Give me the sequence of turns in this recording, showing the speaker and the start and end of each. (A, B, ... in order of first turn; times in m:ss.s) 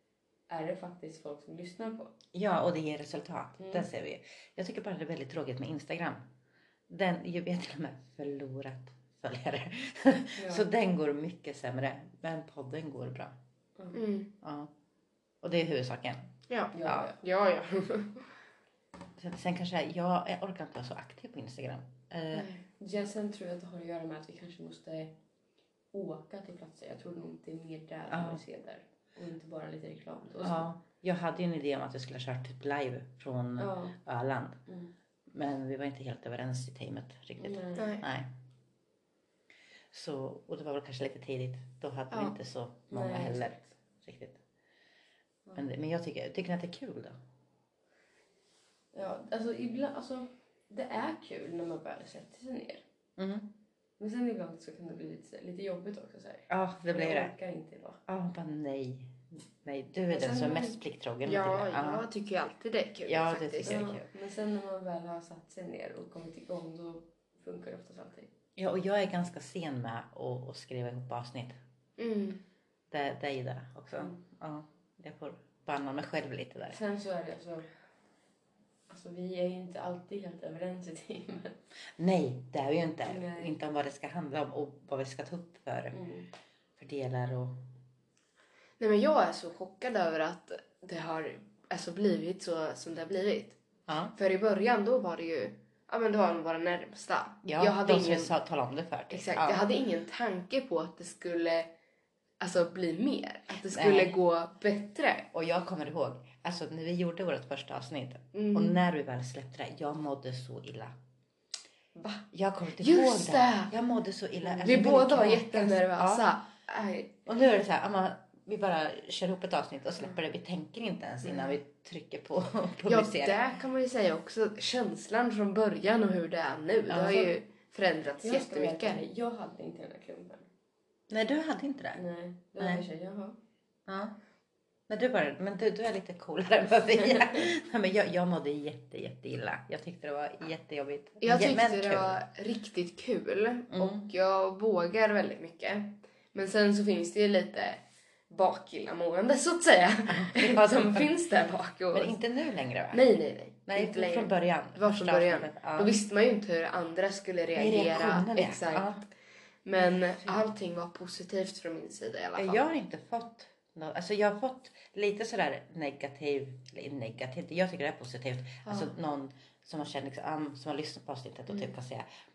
0:00.5-0:02.1 A
0:02.3-0:06.2 B
0:03.6-0:03.9 A
0:06.9-0:13.4 B
0:10.4-0:10.7 A
0:13.9-0:14.3 C
0:14.4-0:14.7 B
0:15.4-0:16.3 B
0:16.5-0:18.2 C
0:16.7-0:17.2 A
0:19.2-0:22.5 B
0:22.3-0:22.6 C
0:22.8-0:25.1 A
0:25.9-0:30.6 A
0:28.1-0:28.4 B
0:30.4-0:34.6 B
0:33.6-0:34.0 A
0:34.7-0:34.9 A
0:35.3-0:38.3 B
0:37.4-0:38.0 A
0:37.8-0:38.0 C
0:39.9-0:44.4 B
0:42.9-0:43.7 A
0:45.5-0:47.2 B
0:48.9-0:52.8 A
0:53.2-0:53.5 B
0:54.0-0:58.0 A
0:56.5-0:57.3 B
0:58.1-1:02.0 B
1:00.1-1:03.9 C
1:03.0-1:04.0 B
1:03.6-1:08.3 A
1:08.6-1:11.6 B
1:12.0-1:12.4 C
1:12.9-1:16.8 B
1:16.7-1:17.6 A
1:18.9-1:21.6 A
1:22.0-1:26.0 B
1:23.1-1:23.5 A
1:25.9-1:26.3 A
1:26.8-1:27.6 B
1:28.8-1:33.6 C
1:33.9-1:34.1 B
1:34.2-1:38.3 C
1:37.4-1:39.7 B
1:39.1-1:41.7 C
1:42.4-1:45.3 C
1:43.7-1:44.1 B
1:45.3-1:51.0 B
1:48.3-1:48.8 C
1:52.0-1:52.2 C
1:52.3-1:56.3 B
1:52.8-1:53.7 C
1:54.4-1:57.2 C
1:57.2-2:03.4 B
2:01.2-2:01.5 C
2:02.9-2:09.0 C
2:06.9-2:07.3 B
2:08.2-2:10.5 A
2:11.1-2:12.0 B
2:11.9-2:13.4 A
2:12.6-2:12.8 B
2:13.9-2:14.1 B
2:14.9-2:22.2 B
2:21.2-2:32.2 C
2:23.7-2:24.1 B
2:30.1-2:31.1 B
2:31.9-2:33.0 B
2:32.9-2:39.0 C
2:33.7-2:35.9 B
2:37.5-2:39.0 B
2:39.6-2:42.6 C
2:39.8-2:40.4 B
2:42.3-2:52.1 B
2:48.6-2:48.9 C